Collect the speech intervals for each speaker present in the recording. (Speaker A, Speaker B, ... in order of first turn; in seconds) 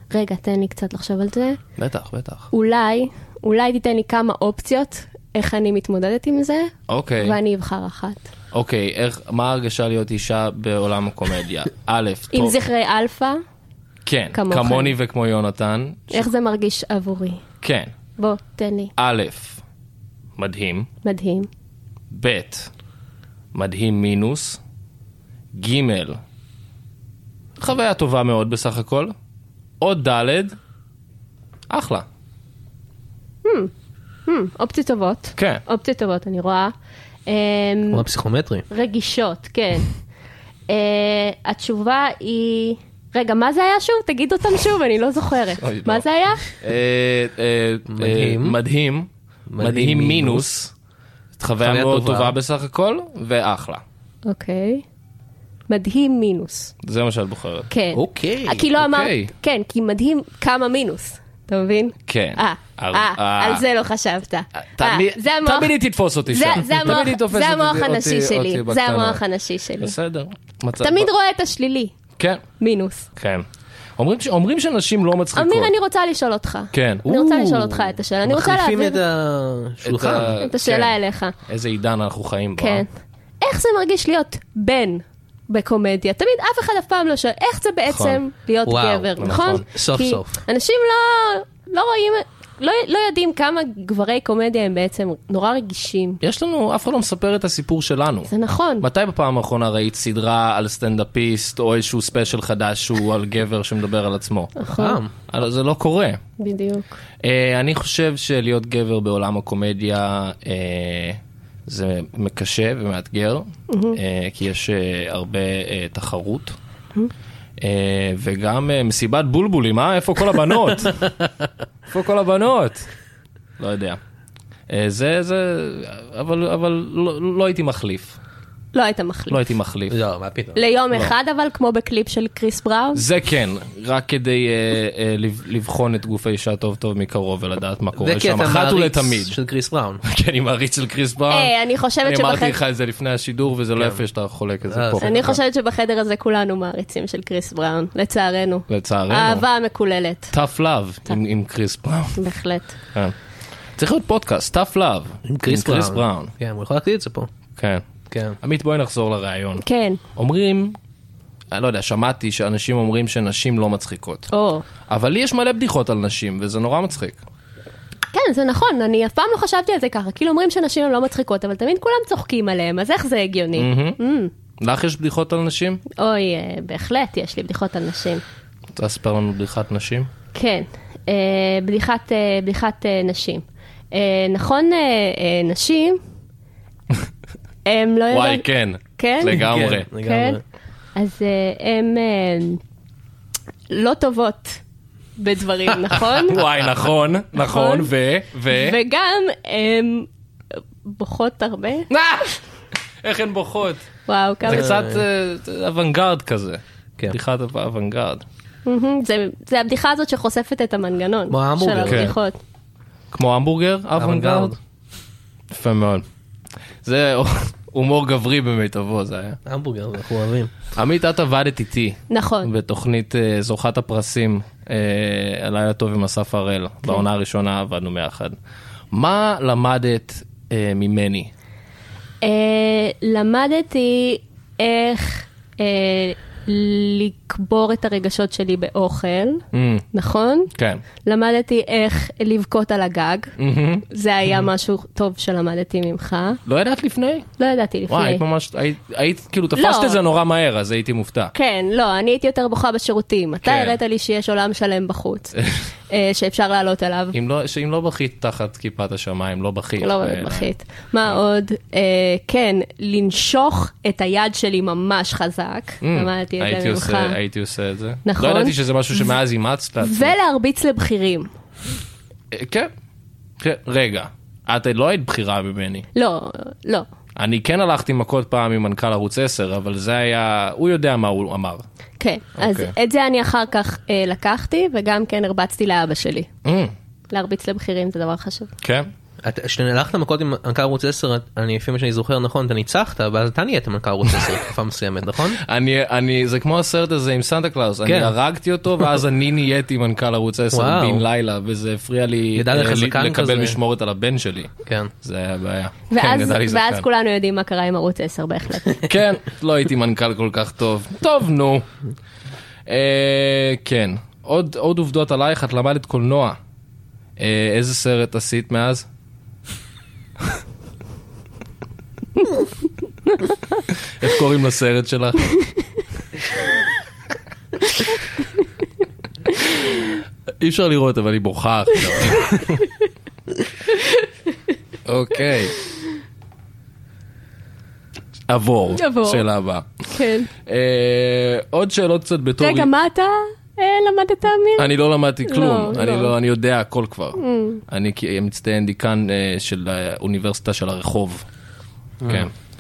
Speaker A: 0.1-1.6, 2.5-8.2, 12.3-13.4, 14.3-14.9, 16.1-17.4, 18.2-18.9, 21.0-21.5, 33.4-33.7, 34.3-36.7, 37.3-38.0, 38.7-39.9, 40.7-46.4, 54.3-54.9, 55.7-56.7, 57.7-65.7, 66.3-70.0, 70.8-72.0, 72.6-73.1, 75.3-79.0, 80.4-81.4, 82.6-82.9, 83.4-96.2, 98.3-98.9, 104.6-105.0, 106.4-107.0, 113.7-114.0, 128.7-129.4, 130.6-133.0, 141.3-142.6, 145.0-150.3, 152.2-152.7, 159.6-160.0, 164.3-164.6, 168.1-174.3, 175.9-178.2, 180.3-186.0, 187.6-190.4, 190.9-192.6, 193.7-194.6, 195.2-196.4, 197.3-197.9, 198.5-200.1, 200.8-201.9, 204.1-204.8, 208.7-212.4, 222.1-222.5, 232.2-240.5, 241.0-243.3, 243.9-246.4, 247.4-248.2, 249.6-250.0, 251.3-255.4, 255.9-257.1, 259.8-267.2, 268.1-268.6, 269.8-271.3, 275.9-276.9, 282.0-286.3, 287.1-288.5, 305.9-308.8, 331.9-332.4, 333.7-334.1, 338.7-339.2, 339.9-340.3, 342.4-344.7, 345.2-346.1, 347.2-347.6
Speaker B: 1.8-2.5, 6.9-7.4, 8.5-12.6, 14.1-16.3, 17.6-17.9, 19.0-19.6, 20.4-20.9, 22.1-22.7, 23.5-24.6, 25.5-26.2, 27.6-29.1, 29.8-30.6, 31.7-32.0, 35.4-35.6, 45.6-50.7, 51.4-53.8, 56.8-57.7, 58.8-59.3, 62.1-63.6, 64.5-69.2, 69.8-71.1, 73.2-73.5, 74.0-75.7, 76.7-77.1, 79.8-82.9, 87.9-88.2, 89.2-89.6, 96.2-104.7, 105.3-106.2, 107.2-116.5, 117.6-121.1, 121.9-122.9, 123.6-124.0, 124.7-128.2, 129.3-130.0, 132.9-139.4, 140.0-145.4, 148.7-149.4, 150.3-152.2, 153.8-156.3, 157.6-157.8, 158.4-159.6, 160.2-160.8, 161.5-164.3, 164.9-167.2, 173.6-174.0, 174.6-175.8, 178.7-180.1, 188.1-189.9, 196.2-198.8, 201.9-202.4, 203.0-203.8, 204.4-208.2, 211.8-212.1, 213.1-214.6, 215.5-216.1, 216.8-219.4, 220.8-228.3, 228.9-231.3, 239.5-239.8, 240.6-240.8, 243.4-243.8, 246.4-247.3, 247.9-251.3, 253.4-253.8, 257.1-260.5, 265.8-270.1, 272.3-272.7, 273.4-275.9, 277.1-281.6, 282.4-282.7, 286.4-286.8, 288.6-288.9, 295.4-306.9, 308.8-311.7, 312.6-316.4, 317.2-318.9, 323.7-325.3, 329.6-332.6, 334.8-335.5, 338.3-339.8, 340.4-342.7, 344.6-351.2, 352.1-352.3
Speaker C: 37.9-38.7, 47.9-48.6, 49.5-50.5, 51.6-52.4, 57.9-58.6, 77.1-80.4, 88.6-89.1, 89.7-90.4, 104.7-105.1, 129.9-130.6, 137.9-140.0, 143.8-144.0, 144.7-145.1, 155.2-157.3, 158.1-158.4, 189.3-190.4, 204.5-205.0, 211.3-212.1, 213.9-214.6, 219.4-220.5, 289.2-295.4, 297.9-298.1, 300.5-301.1, 302.4-303.6, 304.6-304.9, 352.0-352.3